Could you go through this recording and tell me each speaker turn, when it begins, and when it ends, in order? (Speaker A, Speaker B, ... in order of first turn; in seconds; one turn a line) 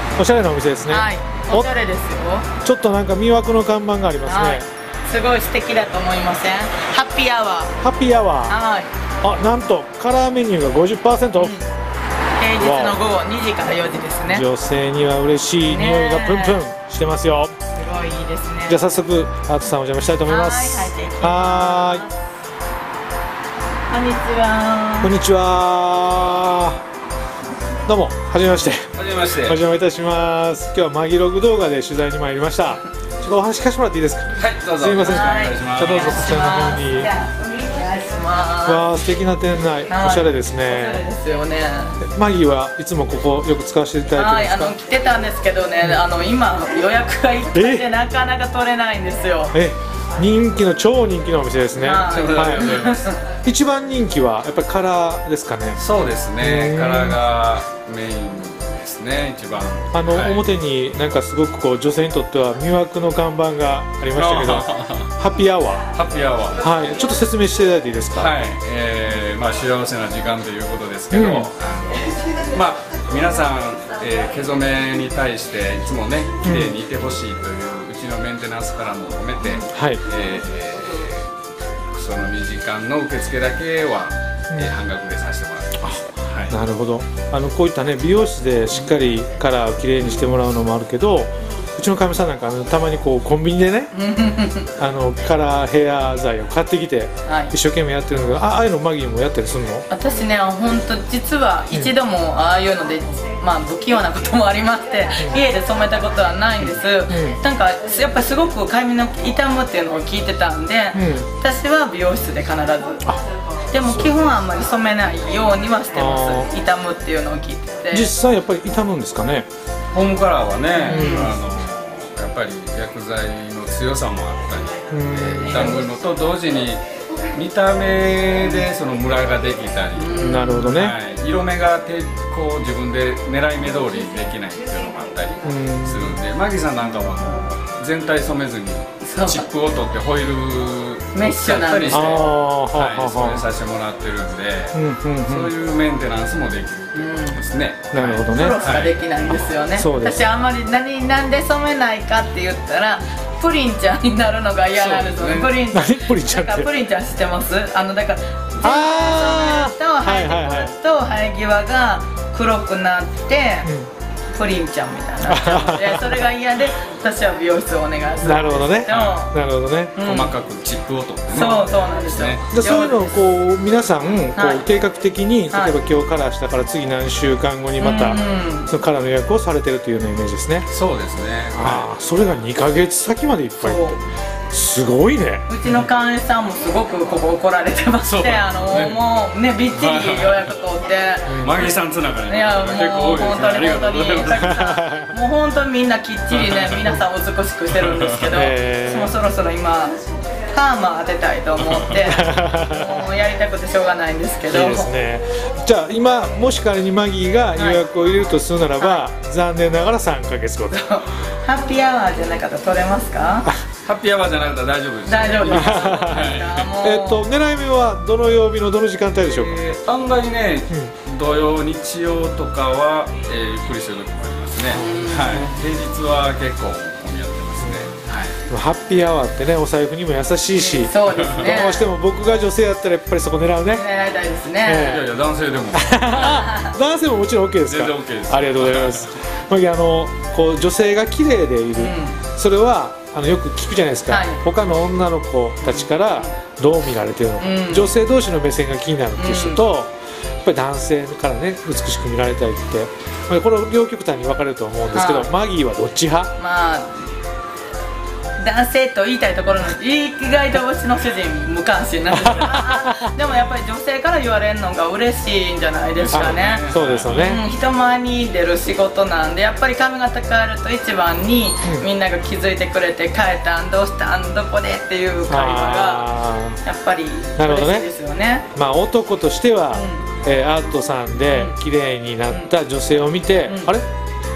Speaker A: 0.2-1.7
Speaker B: 0.9-2.5
Speaker A: 2.6-4.6
Speaker B: 4.3-7.8
Speaker A: 7.8-8.5
Speaker B: 8.5-8.9
Speaker A: 9.2-11.6
Speaker B: 11.4-11.7
Speaker B: 12.4-14.4
Speaker A: 12.6-13.0
Speaker A: 14.3-17.5
Speaker B: 15.6-16.6
Speaker B: 17.7-18.8
Speaker A: 18.7-22.0
Speaker B: 20.3-22.2
Speaker B: 23.9-25.1
Speaker A: 25.0-26.8
Speaker A: 27.9-37.1
Speaker C: 28.9-29.6
Speaker C: 34.4-36.1
Speaker B: 35.0-38.9
Speaker A: 38.6-41.0
Speaker B: 39.9-42.0
Speaker A: 42.0-44.7
Speaker B: 44.1-49.6
Speaker A: 47.5-47.9
Speaker A: 49.5-52.9
Speaker B: 51.8-53.2
Speaker C: 52.1-53.1
Speaker A: 53.4-55.8
Speaker C: 55.8-60.5
Speaker A: 56.4-57.2
Speaker A: 59.9-65.8
Speaker C: 64.1-65.1
Speaker C: 65.9-66.7
Speaker A: 66.6-68.3
Speaker C: 68.1-81.3
Speaker A: 71.1-71.5
Speaker A: 76.4-76.8
Speaker A: 79.7-80.0
Speaker C: 81.9-86.5
Speaker A: 85.8-93.9
Speaker B: 93.9-94.7
Speaker A: 94.8-99.9
Speaker B: 97.2-97.5
Speaker B: 99.9-113.0
Speaker A: 107.1-107.4
Speaker A: 110.9-111.3
Speaker B: 113.7-118.1
Speaker A: 113.8-114.2
Speaker A: 115.9-116.5
Speaker A: 117.9-119.5
Speaker C: 119.9-148.9
Speaker B: 120.8-121.3
Speaker A: 120.9-121.4
Speaker A: 124.9-125.8
Speaker B: 129.9-130.8
Speaker A: 130.2-131.0
Speaker A: 135.4-136.1
Speaker B: 139.0-139.5
Speaker B: 141.1-142.2
Speaker A: 141.9-143.5
Speaker A: 144.7-145.5
Speaker B: 146.9-147.4
Speaker A: 147.9-148.6
Speaker B: 148.3-163.7
Speaker A: 149.8-150.2
Speaker C: 154.7-155.6
Speaker A: 155.7-156.7
Speaker A: 158.6-160.7
Speaker B: 164.3-169.3
Speaker A: 165.3-166.2
Speaker A: 168.2-170.0
Speaker C: 168.9-169.2
Speaker B: 170.0-170.3
Speaker C: 170.0-172.4
Speaker B: 171.3-173.2
Speaker A: 172.5-180.7
Speaker B: 174.3-174.7
Speaker B: 175.5-175.8
Speaker B: 177.8-178.7
Speaker C: 180.7-181.9
Speaker A: 181.5-184.0
Speaker B: 183.6-184.0
Speaker A: 184.5-185.8
Speaker B: 185.5-191.7
Speaker C: 188.0-189.0
Speaker C: 189.7-190.5
Speaker A: 191.3-191.5
Speaker C: 191.4-194.5
Speaker B: 192.2-199.9
Speaker A: 194.3-195.1
Speaker C: 196.3-196.8
Speaker C: 197.8-198.2
Speaker A: 198.3-199.1
Speaker B: 200.5-204.9
Speaker C: 201.6-202.0
Speaker A: 202.0-203.0
Speaker A: 204.5-210.8
Speaker B: 207.6-207.8
Speaker B: 208.8-209.0
Speaker B: 210.7-213.5
Speaker C: 213.8-216.7
Speaker B: 215.1-217.2
Speaker A: 215.5-219.6
Speaker C: 219.2-228.3
Speaker B: 224.8-225.5
Speaker A: 228.5-233.8
Speaker B: 230.5-231.9
Speaker C: 231.1-231.5
Speaker B: 233.7-235.0
Speaker A: 234.6-235.0
Speaker C: 234.8-236.1
Speaker A: 235.7-256.3
Speaker B: 236.1-236.7
Speaker C: 237.7-239.1
Speaker B: 241.8-242.2
Speaker B: 244.1-244.4
Speaker B: 245.6-246.3
Speaker B: 247.4-247.9
Speaker B: 249.2-249.6
Speaker B: 254.9-255.3
Speaker B: 256.4-257.1
Speaker B: 258.4-276.1
Speaker A: 262.1-263.1
Speaker C: 265.9-267.3
Speaker A: 266.1-267.4
Speaker A: 275.3-276.6
Speaker B: 276.6-278.4
Speaker A: 277.4-277.9
Speaker A: 278.5-283.9
Speaker B: 279.7-280.1
Speaker B: 281.3-281.6
Speaker B: 283.4-283.7